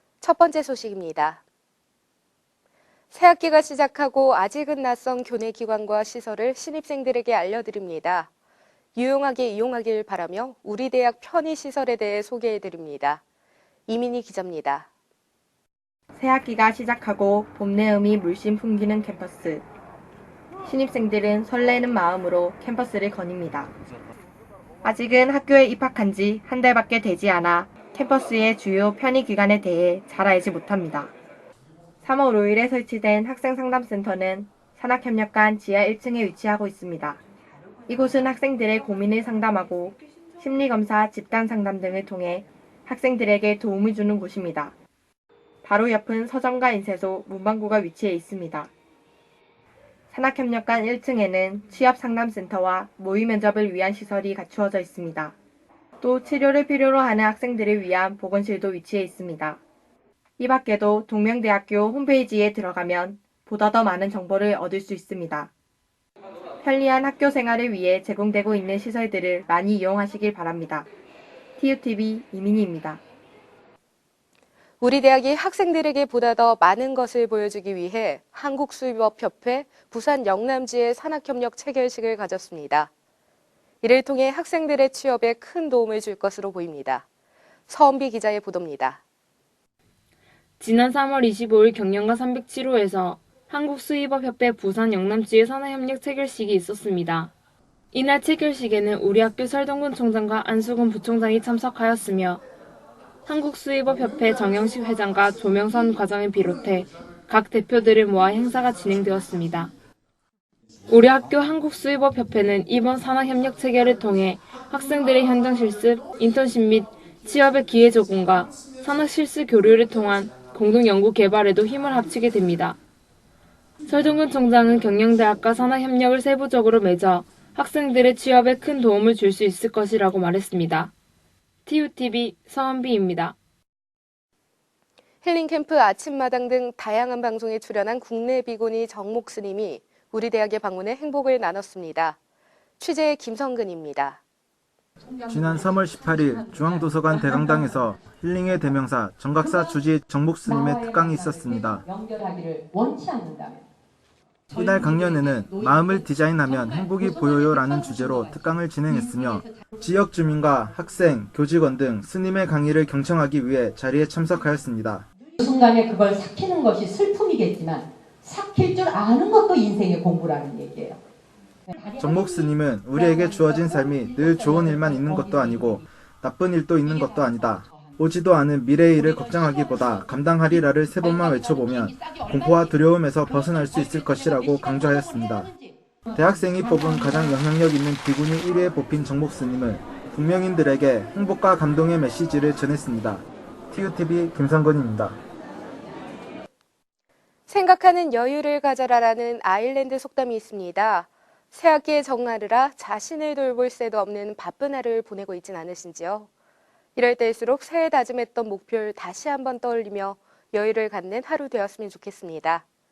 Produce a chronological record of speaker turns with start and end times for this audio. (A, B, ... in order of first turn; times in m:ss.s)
0:00.2-0:01.4 A
0:03.1-0:08.3 A
0:08.9-0:13.2 A
0:13.9-0:14.9 A
0:16.2-0:19.6 B
0:20.6-0:23.7 B
0:24.8-0:31.1 B
0:32.0-0:37.2 B
0:37.9-0:44.7 B
0:45.6-0:48.7 B
0:50.1-0:55.3 B
0:56.0-0:59.6 B
1:00.4-1:05.5 B
1:06.6-1:10.9 B
1:11.6-1:13.0 B
1:14.8-1:22.9 A
1:23.8-1:27.1 A
1:27.7-1:29.0 A
1:30.6-1:37.3 C
1:37.9-1:42.4 C
1:43.2-1:49.7 C
1:50.9-2:02.8 C
2:03.8-2:10.9 C
2:11.6-2:13.3 C
2:15.2-2:22.2 A
2:22.8-2:24.2 A
2:25.1-2:28.0 D
2:25.3-2:31.8 E
2:29.4-2:29.8 D
2:30.4-2:33.6 D
2:34.5-2:39.6 D
2:34.5-2:45.0 E
2:45.4-2:51.0 D
2:51.7-2:55.8 D
2:52.0-3:05.5 E
2:56.8-2:58.0 D
2:58.9-3:07.3 D
3:06.1-3:15.2 E
3:17.5-3:26.3 A
3:27.0-3:32.6 A